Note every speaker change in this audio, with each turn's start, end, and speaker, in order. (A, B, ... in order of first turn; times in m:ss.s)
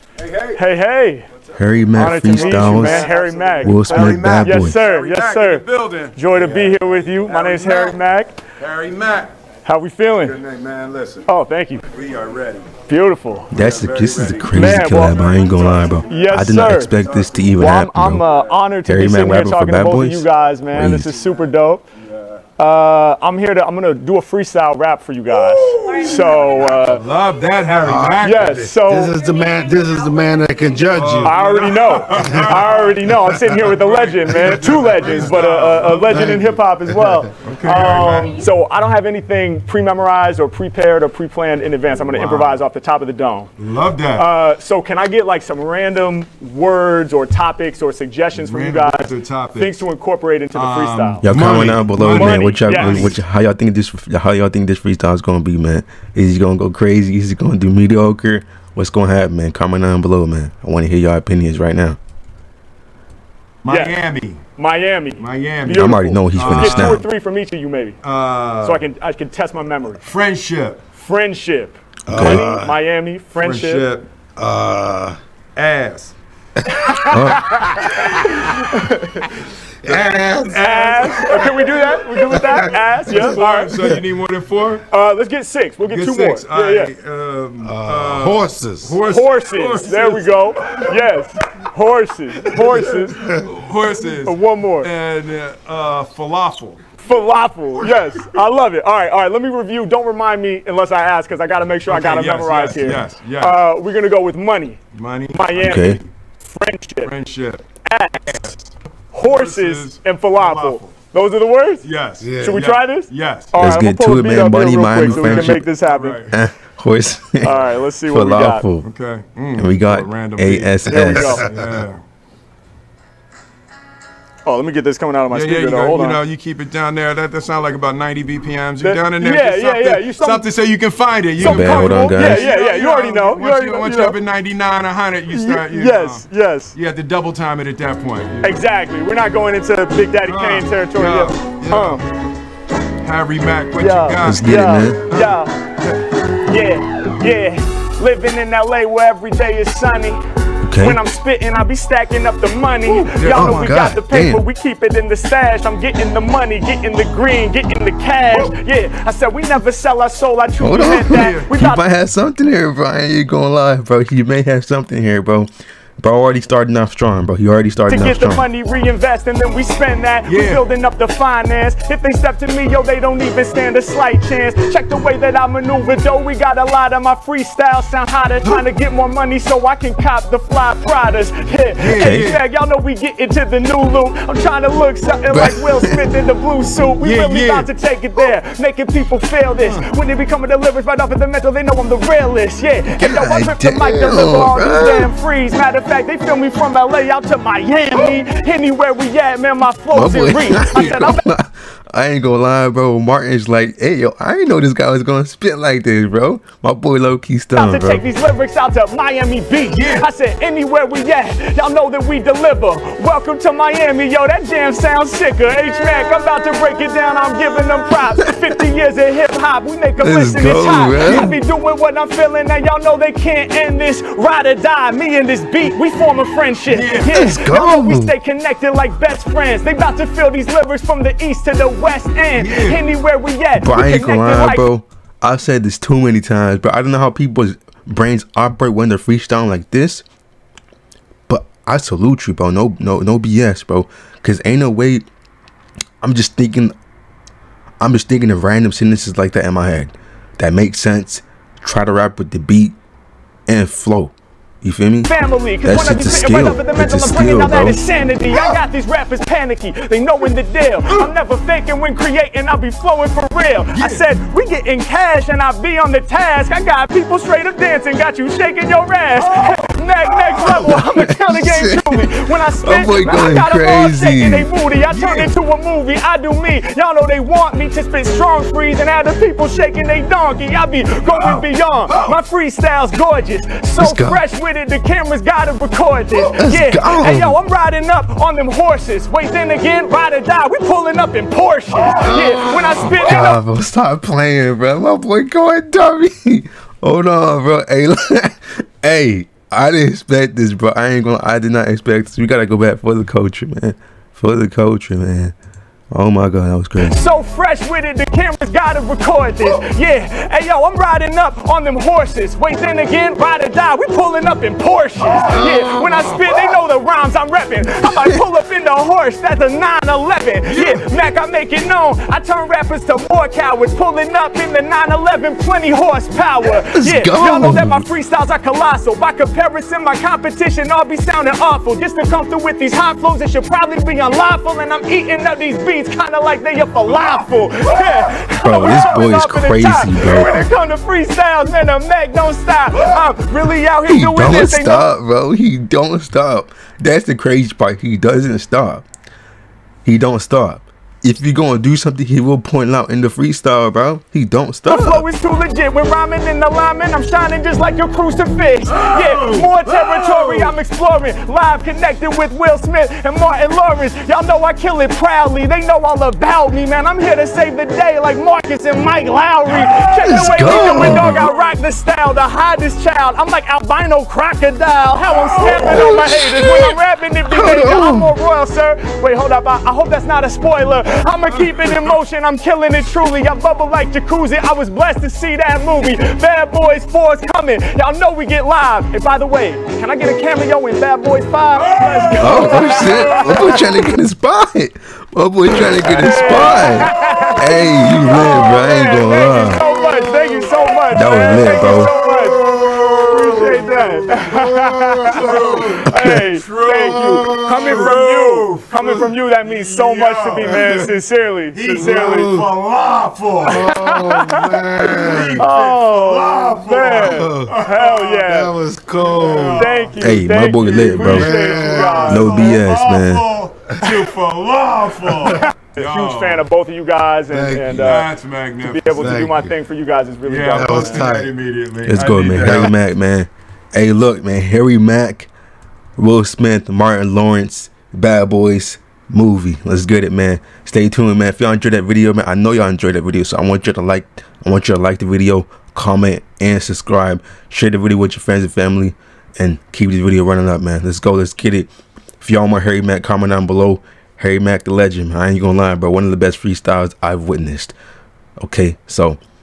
0:00.2-0:00.6 A
0:00.5-0:01.2 B
0:01.6-0:03.1 C
0:01.9-0:05.6 B
0:02.2-0:08.0 A
0:03.6-0:04.8 C
0:06.1-0:08.4 B
0:08.6-0:09.3 A
0:09.6-0:10.4 B
0:10.2-0:11.3 A
0:11.2-0:11.8 B
0:11.9-0:12.7 A
0:12.9-0:13.5 B
0:13.5-0:16.1 A
0:13.5-0:18.2 C
0:14.5-0:15.2 B
0:16.0-0:16.9 B
0:16.9-0:17.6 A
0:17.6-0:21.8 B
0:18.9-0:21.1 C
0:22.6-0:27.0 B
0:25.3-0:28.7 A
0:27.8-0:28.2 D
0:28.2-0:29.2 B
0:28.9-0:31.4 D
0:30.8-0:36.4 A
0:31.2-0:43.5 B
0:32.1-0:32.4 D
0:36.1-0:37.2 D
0:37.4-0:38.4 A
0:42.0-0:42.6 A
0:43.6-0:44.3 A
0:44.2-0:51.2 B
0:48.3-0:49.8 A
0:50.5-0:53.2 A
0:51.2-1:02.0 C
0:52.1-0:53.1 B
1:03.6-1:04.4 A
1:03.7-1:03.9 B
1:04.6-1:08.0 B
1:05.2-1:07.0 A
1:05.7-1:07.0 C
1:08.0-1:08.8 A
1:08.6-1:10.0 B
1:10.0-1:10.8 A
1:10.9-1:13.9 B
1:12.1-1:12.8 D
1:12.1-1:12.4 C
1:13.4-1:14.1 A
1:14.4-1:15.2 D
1:15.6-1:16.1 A
1:16.7-1:19.3 B
1:17.1-1:17.6 C
1:19.8-1:20.6 D
1:19.8-1:22.0 A
1:20.5-1:23.8 B
1:22.3-1:23.2 D
1:23.1-1:24.9 A
1:24.9-1:26.9 B
1:25.8-1:30.8 A
1:27.6-1:29.0 D
1:29.0-1:33.4 B
1:33.3-1:36.8 A
1:34.2-1:34.9 B
1:37.0-1:44.8 B
1:41.9-1:43.6 A
1:44.9-1:46.0 A
1:45.3-1:47.1 B
1:45.6-1:46.0 C
1:47.0-1:47.6 A
1:47.9-1:48.4 B
1:48.3-1:48.6 A
1:49.1-1:51.9 B
1:49.2-1:50.9 A
1:51.8-1:53.6 A
1:52.2-1:52.6 D
1:52.4-1:56.2 B
1:53.6-1:55.7 C
1:55.0-1:56.4 A
1:56.3-1:58.9 C
1:57.4-1:58.6 B
1:58.8-2:00.9 A
1:59.6-2:01.4 C
2:00.9-2:01.5 B
2:01.0-2:01.4 D
2:01.4-2:02.0 A
2:04.4-2:06.2 B
2:05.3-2:18.6 A
2:08.8-2:10.4 B
2:11.4-2:12.4 C
2:11.4-2:14.1 B
2:15.3-2:16.7 B
2:18.4-2:22.1 B
2:20.2-2:22.0 A
2:23.0-2:24.4 A
2:23.8-2:25.6 B
2:24.2-2:25.0 C
2:25.1-2:25.4 A
2:26.4-2:30.2 B
2:30.6-2:31.0 C
2:30.8-2:41.8 B
2:32.9-2:33.8 A
2:33.2-2:34.4 C
2:40.6-2:48.5 C
2:41.1-2:41.5 A
2:47.9-3:21.2 B
2:50.3-2:50.6 A
3:01.8-3:02.4 A
3:02.0-3:02.3 C
3:05.3-3:06.1 C
3:07.0-3:07.7 A
3:09.6-3:09.9 A
3:13.0-3:15.1 C
3:19.9-3:28.0 C
3:27.5-3:54.6 B
3:29.7-3:30.1 A
3:40.0-3:41.4 C
3:46.7-3:47.2 A
3:47.1-3:48.1 C
3:52.4-3:52.8 A
3:53.6-4:00.0 C
4:01.3-4:05.1 C
4:06.0-4:06.8 C
4:07.8-4:12.8 C
4:13.5-4:15.1 C
4:15.0-4:53.4 B
4:15.6-4:17.8 C
4:23.7-4:24.1 A
4:29.2-4:29.6 A
4:30.4-4:34.5 C
4:34.9-4:35.3 A
4:41.1-4:42.2 A
4:43.8-4:44.2 C
4:46.3-4:47.4 C
4:52.8-5:05.3 C
5:05.9-5:07.0 C
5:06.8-5:44.9 B
5:17.9-5:18.2 C
5:20.5-5:20.9 A
5:26.7-5:27.8 C
5:38.4-5:40.4 C
5:43.9-5:48.9 C
5:49.8-5:55.1 C
5:54.7-6:33.6 B
5:58.7-6:00.5 A
6:10.0-6:11.3 C
6:10.5-6:11.3 A
6:15.1-6:15.8 A
6:15.4-6:16.8 C
6:17.3-6:18.2 C
6:21.3-6:22.0 A
6:31.6-6:33.3 A
6:32.2-6:39.6 C
6:35.8-6:52.4 B
6:35.9-6:37.4 A
6:37.9-6:38.4 A
6:39.8-6:40.4 D
6:40.9-6:41.9 C
6:41.9-6:44.4 A
6:44.3-6:45.8 D
6:45.0-6:50.9 A
6:45.9-6:46.2 C
6:46.8-6:47.9 D
6:51.5-6:54.0 A
6:51.7-6:52.5 D
6:53.4-6:58.6 B
6:53.4-6:55.5 D
6:54.8-6:58.2 A
6:57.0-6:57.5 D
6:58.2-6:59.7 D
6:59.0-7:00.0 A
6:59.4-7:02.6 B
7:00.0-7:01.3 C
7:00.5-7:06.5 A
7:00.8-7:02.3 D
7:02.1-7:03.3 C
7:05.2-7:11.1 B
7:07.3-7:08.1 D
7:07.8-7:09.3 A
7:08.9-7:09.6 D
7:10.2-7:12.7 A
7:10.5-7:11.3 D
7:11.9-7:15.3 C
7:16.0-7:31.7 C
7:32.2-7:37.8 C
7:38.4-7:39.2 C